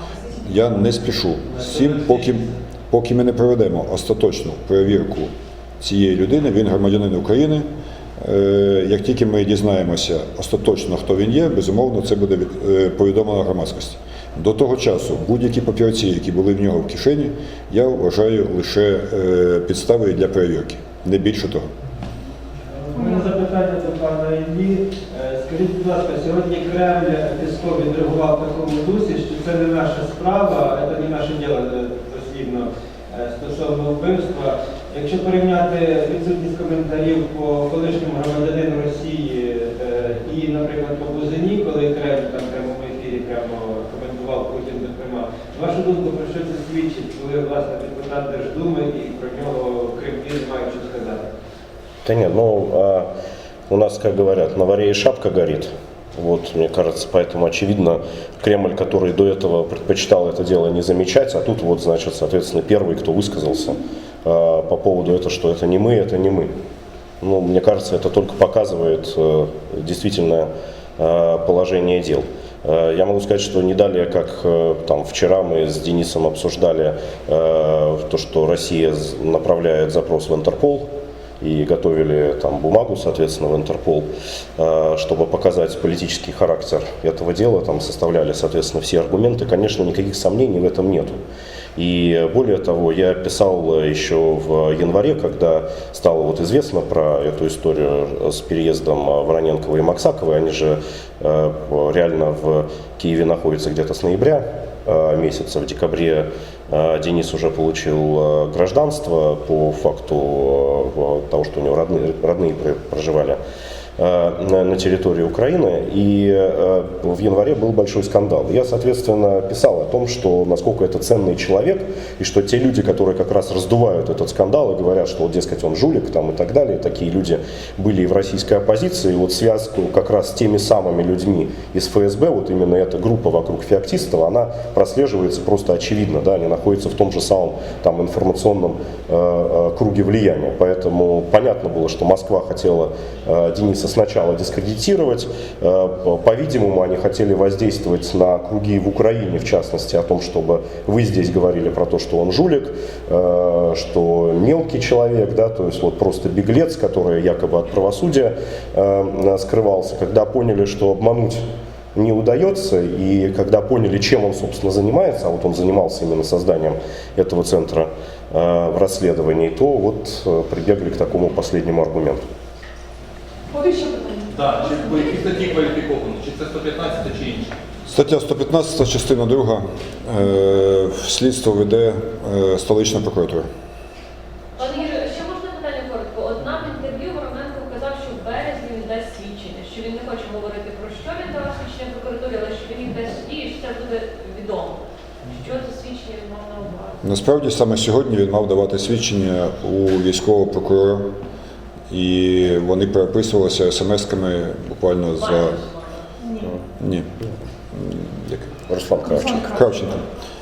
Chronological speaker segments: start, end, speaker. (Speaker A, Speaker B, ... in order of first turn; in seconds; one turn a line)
Speaker A: 0.4-7.7
Speaker A: 8.2-21.7
Speaker B: 22.6-51.2
Speaker C: 22.9-23.3
Speaker D: 52.0-53.1
Speaker D: 53.7-66.5
Speaker D: 67.2-91.2
Speaker D: 91.8-113.4
Speaker D: 114.0-172.3
Speaker C: 173.5-175.2
Speaker E: 174.3-177.5
Speaker A: 177.9-183.5
Speaker F: 184.6-197.0
Speaker A: 197.0-201.2
Speaker A: 201.9-205.6
Speaker F: 205.2-206.0
Speaker C: 206.2-206.5
Speaker A: 206.8-207.1
Speaker A: 207.7-210.1
Speaker D: 208.7-209.4
Speaker C: 209.1-209.6